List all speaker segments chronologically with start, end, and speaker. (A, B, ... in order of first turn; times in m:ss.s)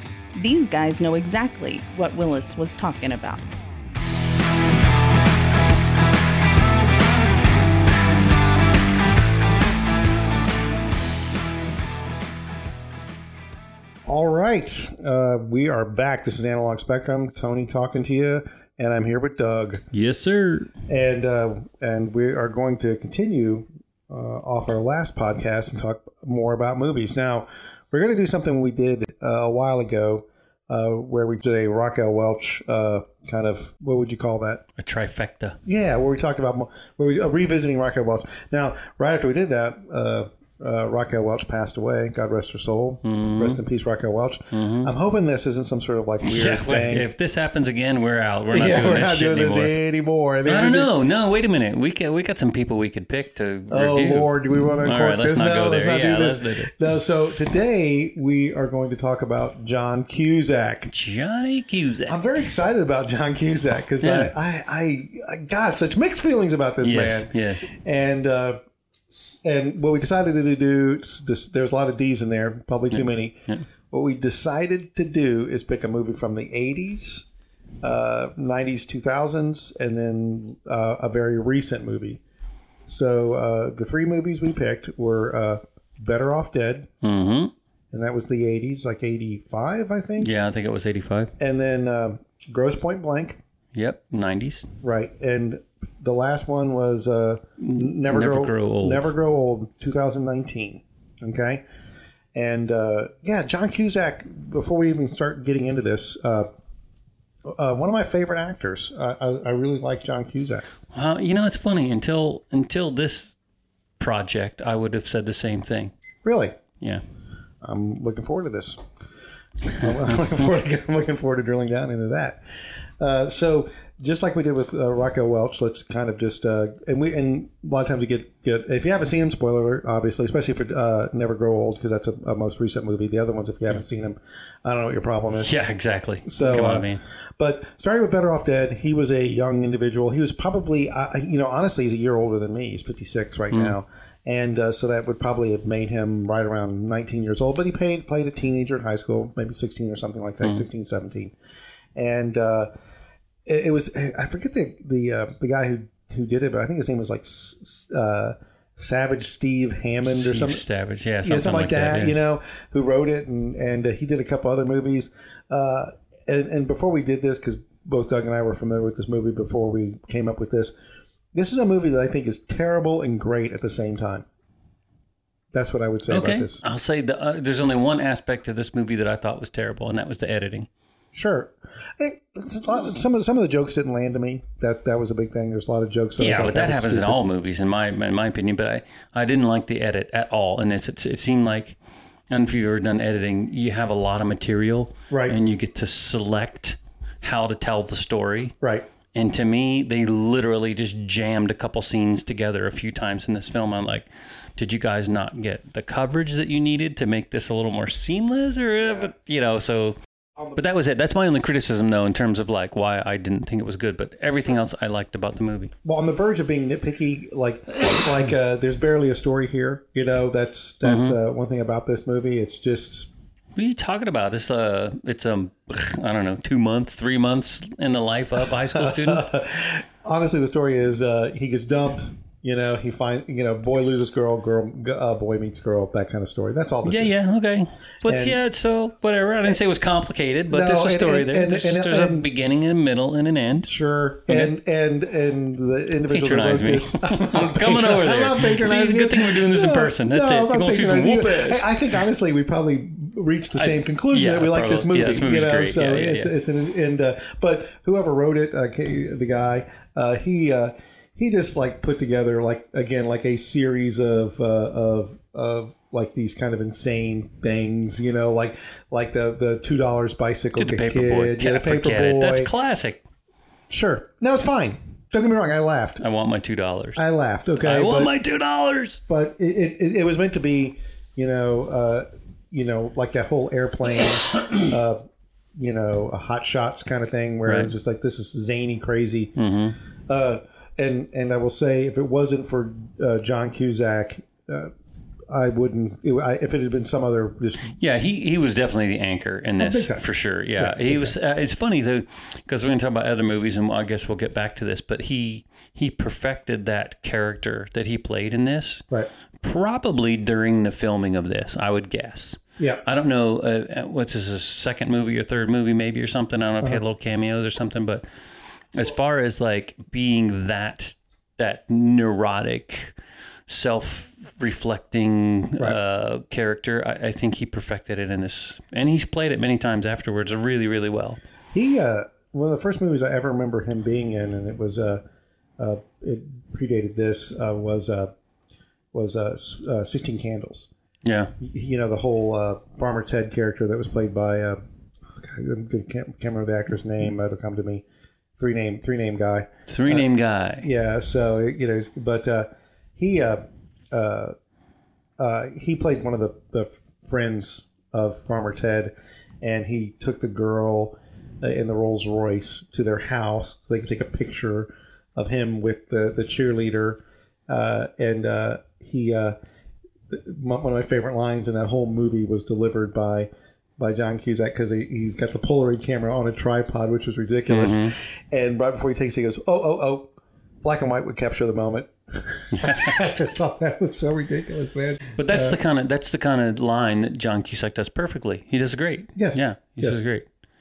0:00.4-0:03.4 A
0:14.1-0:19.8 B
0:19.9-0:20.7 C
0:20.9-0:34.6 B
0:34.8-0:35.6 C
0:35.6-0:47.1 B
0:43.0-0:43.6 C
0:44.5-0:44.9 C
0:46.2-0:49.8 C
0:48.5-0:50.9 B
0:50.4-0:56.9 C
0:53.7-1:00.9 B
1:00.9-1:02.4 C
1:02.1-1:17.2 B
1:04.0-1:04.3 C
1:06.8-1:07.7 C
1:12.9-1:13.6 C
1:17.8-1:22.2 B
1:22.9-1:26.9 B
1:27.0-1:27.5 C
1:27.9-1:30.3 B
1:30.2-1:31.3 C
1:31.4-1:33.4 B
1:33.7-1:34.7 C
1:34.8-1:41.6 B
1:37.6-1:39.1 C
1:42.4-1:46.5 B
1:47.5-1:50.7 B
1:50.9-1:53.4 C
1:54.0-1:55.9 C
1:56.2-1:56.6 B
1:57.6-1:58.8 B
1:59.8-2:02.4 B
2:03.0-2:15.5 B
2:15.4-2:17.0 C
2:16.2-2:31.3 B
2:32.0-2:32.7 B
2:33.5-2:40.6 B
2:40.0-2:42.2 C
2:41.2-2:50.7 B
2:51.3-2:54.3 B
2:55.5-2:56.6 B
2:56.1-3:00.7 C
3:01.1-3:07.2 B
3:06.2-3:11.8 C
3:12.3-3:18.6 C
3:15.1-3:15.4 B
3:19.1-3:30.0 C
3:30.6-3:35.7 C
3:35.8-3:43.1 B
3:40.8-3:41.2 C
3:43.6-3:49.2 C
3:48.7-3:57.2 B
3:56.8-4:03.7 C
3:58.1-3:58.4 B
4:00.5-4:02.3 B
4:03.6-4:32.5 B
4:06.1-4:11.7 C
4:13.6-4:16.3 C
4:30.6-4:33.0 C
4:33.7-4:36.0 B
4:36.0-4:37.0 C
4:37.0-4:38.1 B
4:37.6-4:39.0 C
4:39.1-4:45.0 B
4:45.6-4:49.4 B
4:47.5-4:47.7 C
4:49.4-4:49.8 C
4:50.1-4:54.7 B
4:55.3-4:57.8 B
4:57.8-5:08.8 C
4:59.6-5:00.1 B
5:00.6-5:01.1 B
5:09.4-5:22.9 C
5:23.5-5:31.2 C
5:31.5-5:35.0 B
5:35.6-5:38.1 B
5:38.9-5:40.7 B
5:41.0-5:41.3 C
5:41.4-5:44.6 B
5:45.2-5:47.8 B
5:48.4-5:50.1 B
5:49.7-5:50.7 C
5:50.6-5:54.4 B
5:55.2-6:09.4 B
6:10.1-6:20.1 B
6:17.5-6:17.9 C
6:20.6-6:25.6 B
6:22.6-6:22.9 C
6:25.2-6:30.3 C
6:29.2-6:30.0 B